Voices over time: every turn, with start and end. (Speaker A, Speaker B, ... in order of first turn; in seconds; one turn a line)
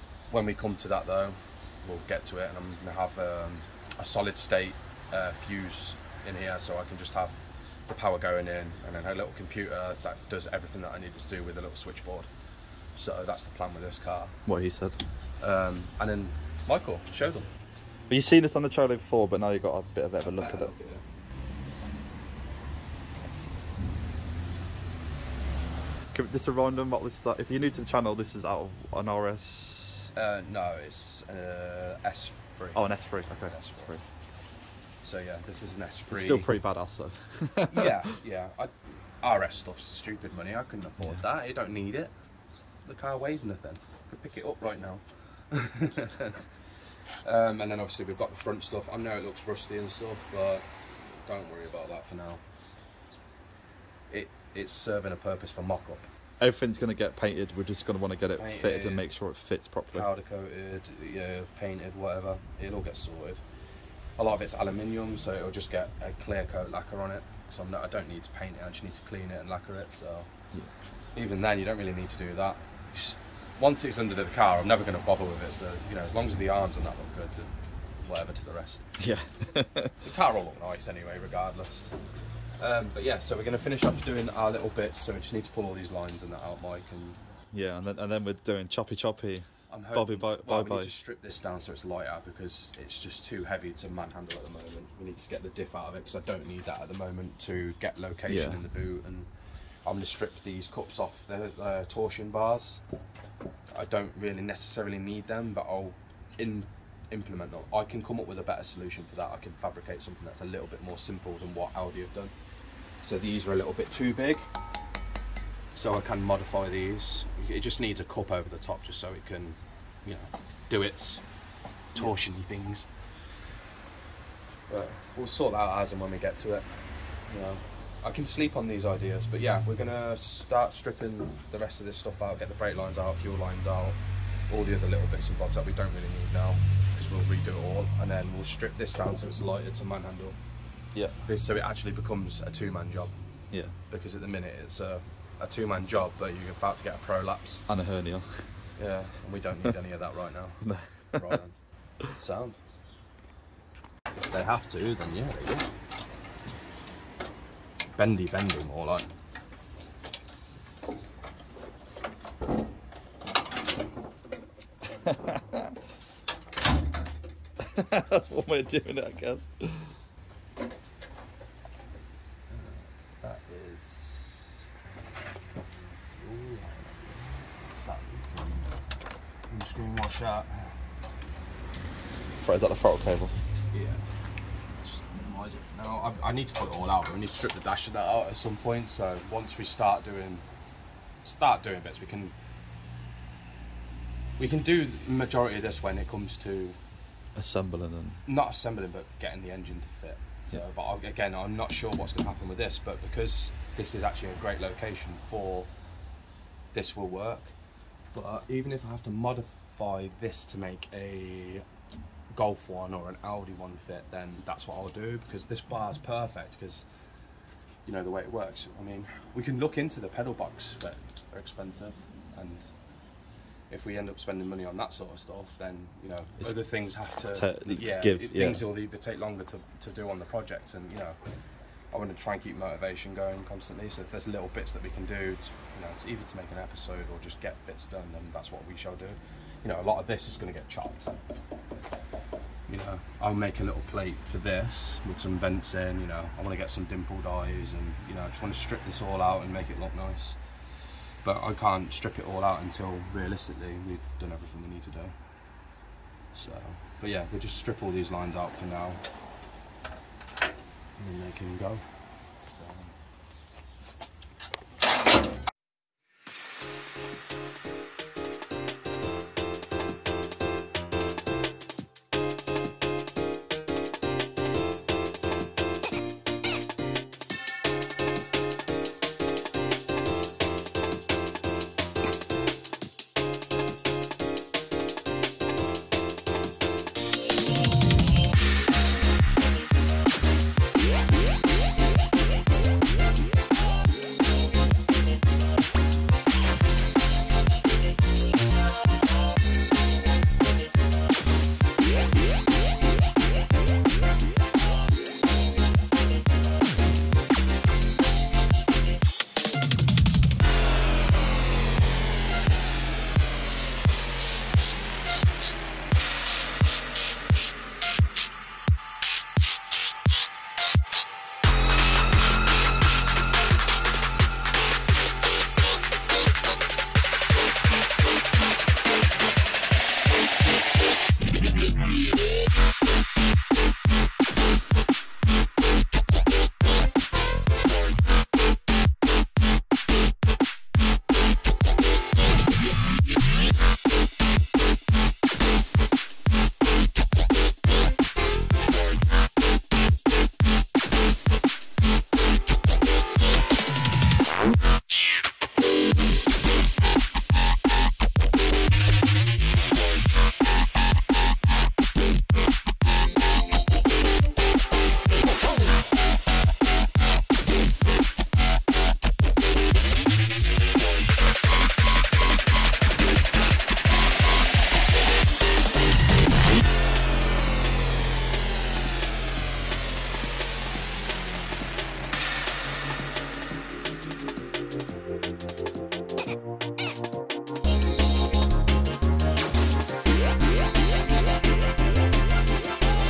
Speaker A: 0.3-12.3
Speaker A: 12.9-14.3
Speaker B: 14.4-15.0
Speaker A: 15.4-17.5
Speaker B: 18.1-20.7
Speaker A: 20.2-21.0
Speaker B: 26.1-30.1
Speaker A: 30.1-32.8
Speaker B: 32.7-34.0
Speaker A: 33.4-33.9
Speaker A: 35.0-36.5
Speaker B: 36.1-38.0
Speaker A: 37.7-42.1
Speaker A: 42.8-46.4
Speaker A: 47.2-52.4
Speaker A: 54.1-56.1
Speaker B: 56.4-60.1
Speaker A: 58.4-59.0
Speaker A: 59.9-63.4
Speaker A: 64.2-70.3
Speaker A: 71.1-77.5
Speaker A: 78.0-78.8
Speaker B: 79.0-80.0
Speaker A: 80.0-82.0
Speaker A: 82.6-87.2
Speaker B: 87.5-90.9
Speaker A: 89.7-99.3
Speaker B: 98.3-98.6
Speaker A: 99.8-102.8
Speaker A: 103.7-112.3
Speaker A: 113.0-114.5
Speaker A: 115.7-121.2
Speaker A: 121.9-122.9
Speaker A: 124.7-140.4
Speaker A: 141.2-143.1
Speaker A: 143.9-147.6
Speaker B: 147.7-148.5
Speaker A: 148.8-152.6
Speaker B: 150.6-151.3
Speaker A: 154.3-155.7
Speaker A: 158.0-159.1
Speaker B: 165.0-165.7
Speaker B: 167.6-169.9
Speaker A: 172.5-178.8
Speaker A: 179.5-180.8
Speaker B: 182.4-183.3
Speaker A: 183.7-184.1
Speaker A: 184.7-190.4
Speaker A: 191.2-192.3
Speaker A: 194.4-196.8
Speaker B: 197.3-198.2
Speaker A: 198.2-205.7
Speaker A: 206.7-207.5
Speaker A: 208.1-211.6
Speaker A: 212.3-216.8
Speaker A: 217.8-222.7
Speaker A: 223.7-231.2
Speaker B: 227.3-228.6
Speaker A: 231.9-241.2
Speaker A: 242.7-250.4
Speaker A: 251.2-255.1
Speaker A: 256.3-259.0
Speaker A: 261.0-261.8
Speaker A: 262.5-262.9